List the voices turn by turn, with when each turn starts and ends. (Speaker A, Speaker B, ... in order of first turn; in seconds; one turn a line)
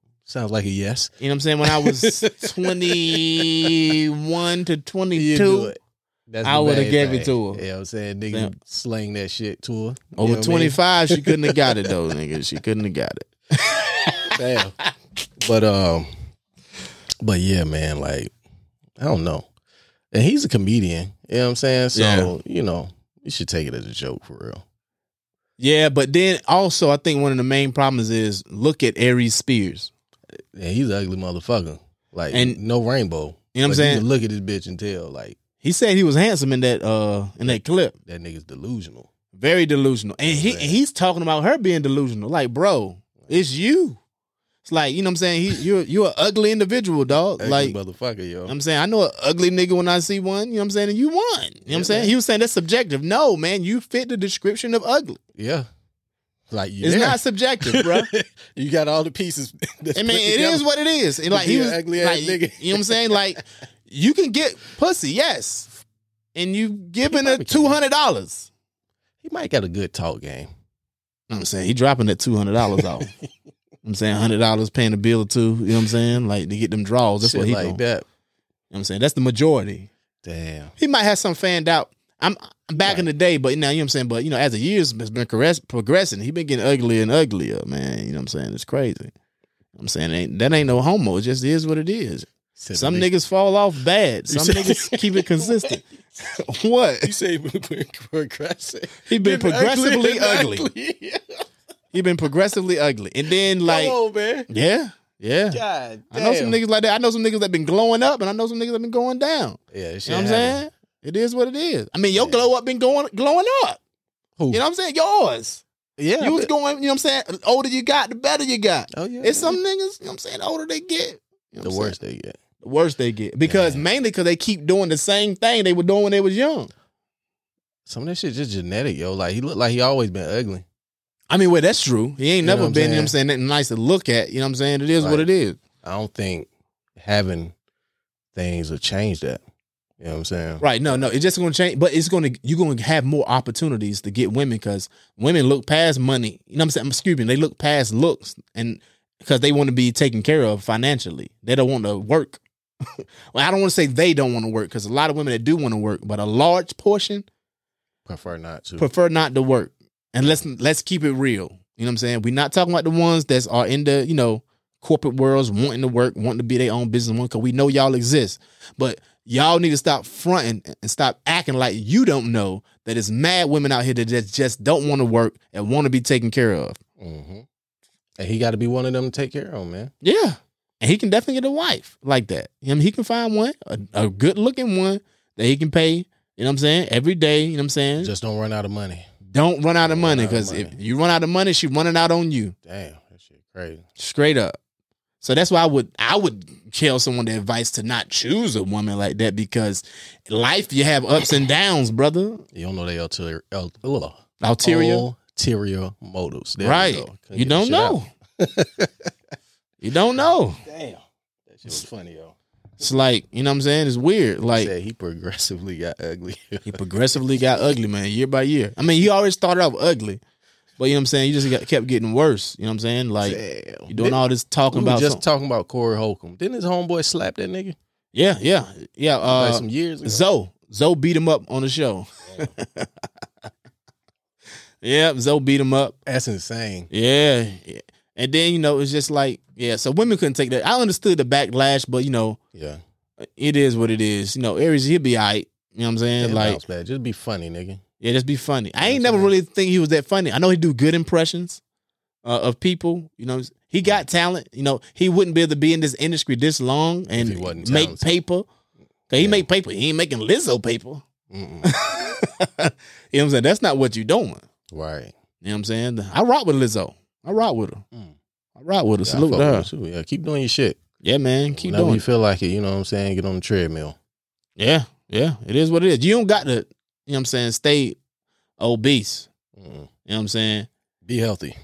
Speaker A: 0.2-1.1
Speaker B: 1.2-5.7
Speaker A: 1.6-3.8
Speaker A: 5.1-5.8
Speaker A: 6.3-11.9
Speaker B: 6.4-7.6
Speaker B: 10.2-14.3
Speaker A: 14.3-14.7
Speaker A: 15.4-16.1
Speaker A: 17.2-18.3
Speaker A: 19.0-19.5
Speaker A: 20.1-24.6
Speaker B: 21.9-22.3
Speaker B: 25.6-29.9
Speaker A: 30.5-35.4
Speaker B: 32.3-32.6
Speaker B: 33.5-34.0
Speaker B: 35.6-38.0
Speaker A: 37.5-39.1
Speaker B: 39.3-44.0
Speaker A: 40.2-40.8
Speaker B: 44.6-47.8
Speaker A: 47.4-48.5
Speaker B: 48.5-55.2
Speaker A: 51.7-52.1
Speaker A: 55.4-55.7
Speaker A: 56.5-60.7
Speaker B: 56.8-58.1
Speaker B: 60.0-65.7
Speaker A: 61.3-63.4
Speaker B: 66.3-68.5
Speaker A: 67.0-67.8
Speaker A: 69.2-70.5
Speaker B: 71.3-73.1
Speaker A: 72.7-73.1
Speaker B: 73.8-77.8
Speaker A: 77.2-78.0
Speaker B: 78.7-79.9
Speaker A: 80.2-80.7
Speaker B: 80.8-89.1
Speaker A: 82.8-83.1
Speaker B: 89.8-95.8
Speaker A: 92.6-93.1
Speaker A: 94.3-95.8
Speaker B: 96.5-97.1
Speaker A: 97.0-101.2
Speaker B: 99.1-100.7
Speaker B: 101.9-104.0
Speaker A: 103.6-104.5
Speaker B: 104.5-105.6
Speaker A: 105.5-106.6
Speaker B: 106.1-113.8
Speaker A: 109.7-110.7
Speaker A: 112.2-112.5
Speaker A: 114.4-114.6
Speaker B: 114.5-115.6
Speaker A: 116.0-116.5
Speaker B: 116.2-122.0
Speaker A: 118.9-119.6
Speaker A: 121.6-122.3
Speaker B: 122.6-126.7
Speaker A: 123.5-123.8
Speaker A: 127.9-130.7
Speaker B: 131.3-135.6
Speaker A: 132.4-133.2
Speaker A: 135.0-135.3
Speaker A: 135.8-137.5
Speaker A: 138.3-139.4
Speaker A: 140.0-140.7
Speaker B: 140.6-152.4
Speaker B: 153.3-157.3
Speaker A: 158.1-158.9
Speaker B: 158.8-176.8
Speaker A: 177.0-177.4
Speaker A: 178.2-179.9
Speaker B: 180.0-188.1
Speaker A: 188.0-189.1
Speaker B: 189.3-192.6
Speaker A: 189.8-190.8
Speaker A: 192.7-193.8
Speaker B: 194.0-194.6
Speaker B: 195.2-202.4
Speaker A: 202.5-208.9
Speaker B: 204.4-205.1
Speaker B: 206.6-208.1
Speaker B: 209.8-210.6
Speaker A: 210.7-212.4
Speaker B: 212.8-214.7
Speaker A: 214.5-216.8
Speaker B: 216.7-220.2
Speaker B: 220.8-225.2
Speaker A: 223.2-227.8
Speaker B: 228.1-233.1
Speaker A: 229.3-230.2
Speaker B: 234.8-236.0
Speaker A: 236.1-236.9
Speaker B: 236.9-242.4
Speaker B: 243.4-246.6
Speaker A: 246.2-247.8
Speaker B: 248.0-251.6
Speaker A: 248.8-249.3
Speaker B: 252.2-258.5
Speaker A: 257.1-258.1
Speaker B: 259.1-261.1
Speaker A: 259.1-259.5
Speaker A: 261.3-261.8
Speaker B: 261.6-264.4
Speaker A: 264.7-265.1
Speaker B: 265.4-267.8
Speaker B: 268.6-269.7
Speaker A: 269.0-270.8
Speaker B: 271.0-272.1
Speaker A: 271.5-274.0
Speaker B: 274.6-278.0
Speaker B: 278.6-279.3
Speaker A: 279.6-279.9
Speaker B: 280.1-280.7
Speaker A: 281.1-281.6